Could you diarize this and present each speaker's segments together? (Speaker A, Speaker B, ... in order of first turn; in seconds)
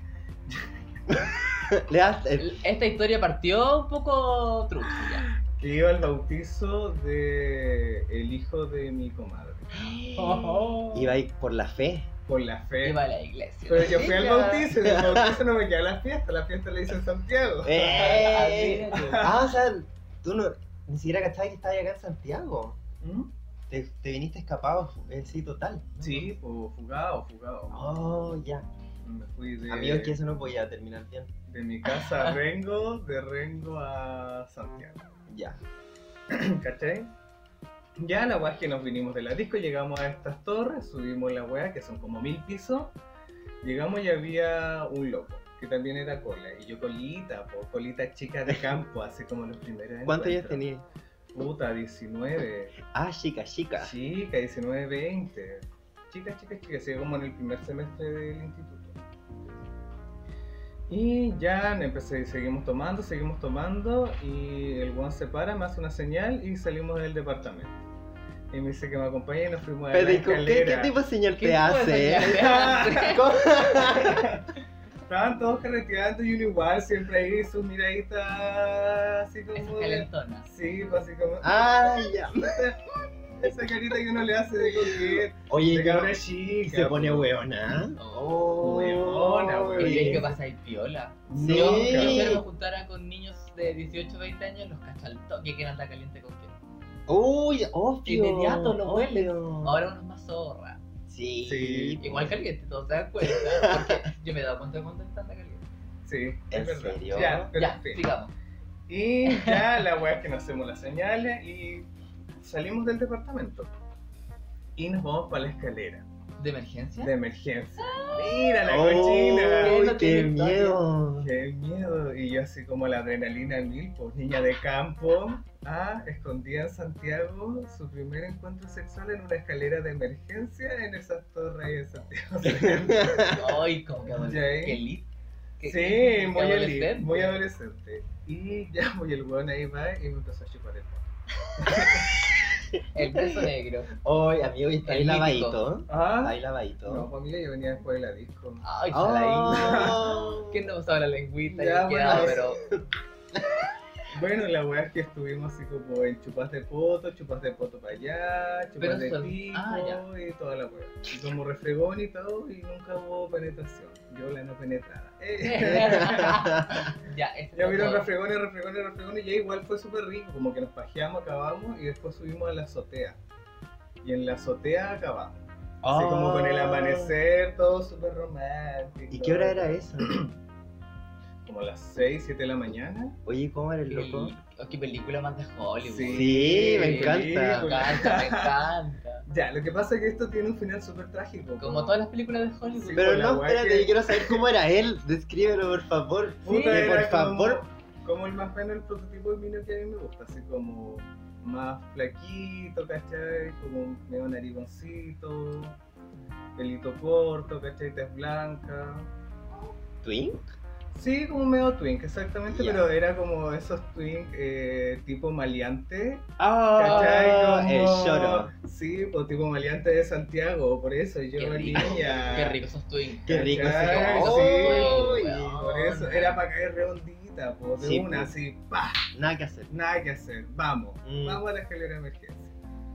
Speaker A: 0.5-1.4, 5.4-10.0, 12.3-13.0, 13.7-19.4, 23.0-23.3, 26.0-27.8, 29.0-30.1, 31.5-35.1, 36.3-37.1, 38.0-42.9, 43.6-50.6, 51.3-52.8, 53.8-59.0, 60.9-67.8, 68.5-70.9, 72.3-74.4, 75.1-87.3, 88.6-90.3, 91.3-92.4, 101.4-102.0, 106.0-108.0, 108.9-111.9, 112.4-113.7, 114.8-116.0, 117.0-119.8, 121.2-133.4, 134.1-134.8, 135.6-142.3, 145.9-148.6, 149.5-150.2, 151.5-152.5, 154.1-166.4, 167.5-173.2, 174.0-180.3, 181.4-183.2, 185.8-188.5, 189.3-192.0, 192.7-194.4, 196.4-205.8, 206.6-209.1, 210.9-222.6, 223.3-229.1, 229.7-232.6
Speaker B: 1.7-2.6, 10.4-12.1, 13.8-15.4, 17.6-22.8, 23.7-26.0, 27.7-28.6, 29.7-31.3, 35.3-35.6, 50.0-50.8, 52.9-53.9, 69.9-74.4, 81.4-82.7, 84.6-90.3, 91.3-92.4, 97.1-99.8, 101.1-102.4, 103.2-104.1, 106.5-107.5, 118.6-121.3, 132.4-133.4, 141.6-147.1, 148.9-150.7, 152.1-153.7, 165.6-166.9, 175.8-177.2, 179.1-180.2, 183.2-184.3, 186.1-187.7, 192.9-197.6, 210.0-210.5, 212.5-212.8, 216.4-218.5, 221.8-222.1, 223.2-226.3, 227.8-228.3, 229.1-229.7, 231.0-231.4
Speaker C: 2.4-5.3, 9.7-11.1, 12.8-14.1, 17.9-19.3, 26.0-26.3, 31.9-32.3, 71.3-73.2, 79.5-80.5, 88.0-88.4, 89.8-96.5, 98.0-100.8, 102.0-105.7, 107.1-108.3, 109.3-109.7, 116.4-117.1, 117.8-118.5, 119.6-120.8, 133.2-137.4, 142.9-143.9, 144.8-145.6, 148.6-152.6, 158.8-160.0, 165.4-168.1, 183.9-189.2, 191.6-193.2, 196.4-196.9, 221.4-225.7